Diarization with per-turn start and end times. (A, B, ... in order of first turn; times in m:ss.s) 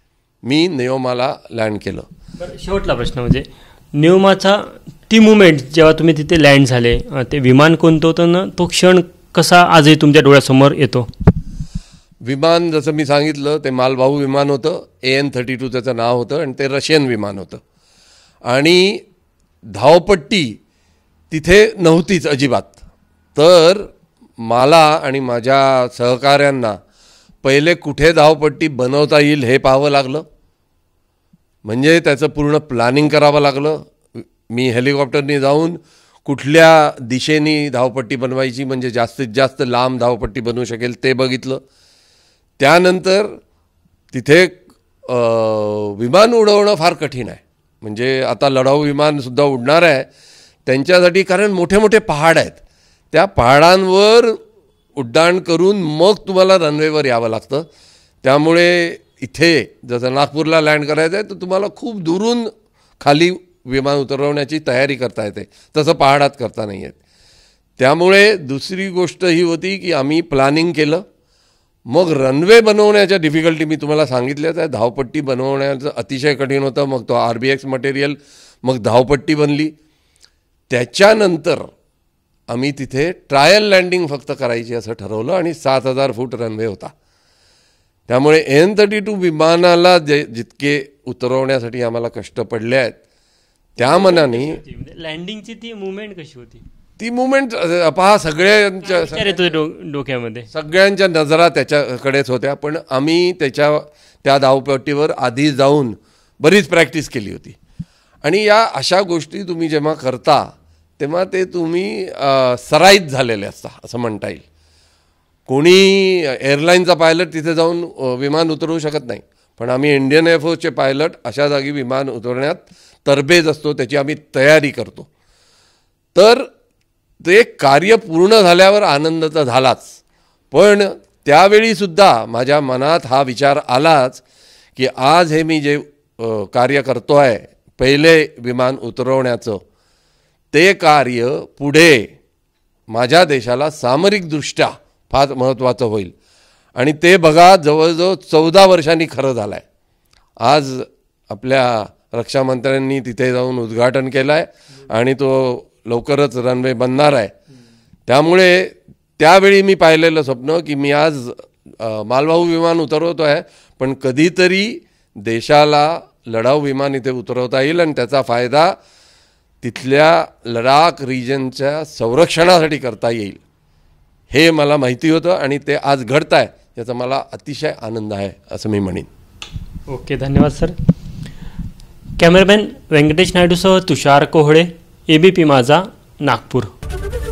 0:00.4-0:02.1 A
0:02.4-0:11.1 B
0:12.2-0:17.6 A
0:18.4-0:19.0 A
0:19.7-0:20.6 A
0:21.3-0:22.8 A
0:23.4-0:26.8 A
0:27.4-0:30.2 A
0:31.6-0:41.6 A
0:42.6-0:43.4 A
0:44.1-0:50.1 A
0:50.7-0:52.6 A
0:53.1-0:54.4 A
0:55.0-0:57.7 A
0:58.2-1:07.0 A
1:07.8-1:11.0 A
1:11.9-1:19.7 A
1:20.7-1:21.7 A
1:22.5-1:26.9 A
1:28.1-1:33.0 A
1:33.8-1:34.6 A
1:33.8-1:36.6 B
1:37.0-1:39.6 A
1:38.8-1:40.5 B
1:40.5-1:47.6 A
1:48.2-1:50.5 A
1:51.0-1:54.4 A
1:55.5-2:05.1 A
2:06.2-2:06.5 A
2:07.2-2:10.0 A
2:10.5-2:14.2 A
2:14.8-2:19.6 A
2:20.5-2:22.1 A
2:22.9-2:26.1 A
2:26.8-2:29.6 A
2:30.4-2:37.3 A
2:38.1-2:48.8 A
2:49.6-2:53.4 A
2:54.3-2:59.1 A
2:59.9-3:00.7 B
3:02.2-3:06.7 B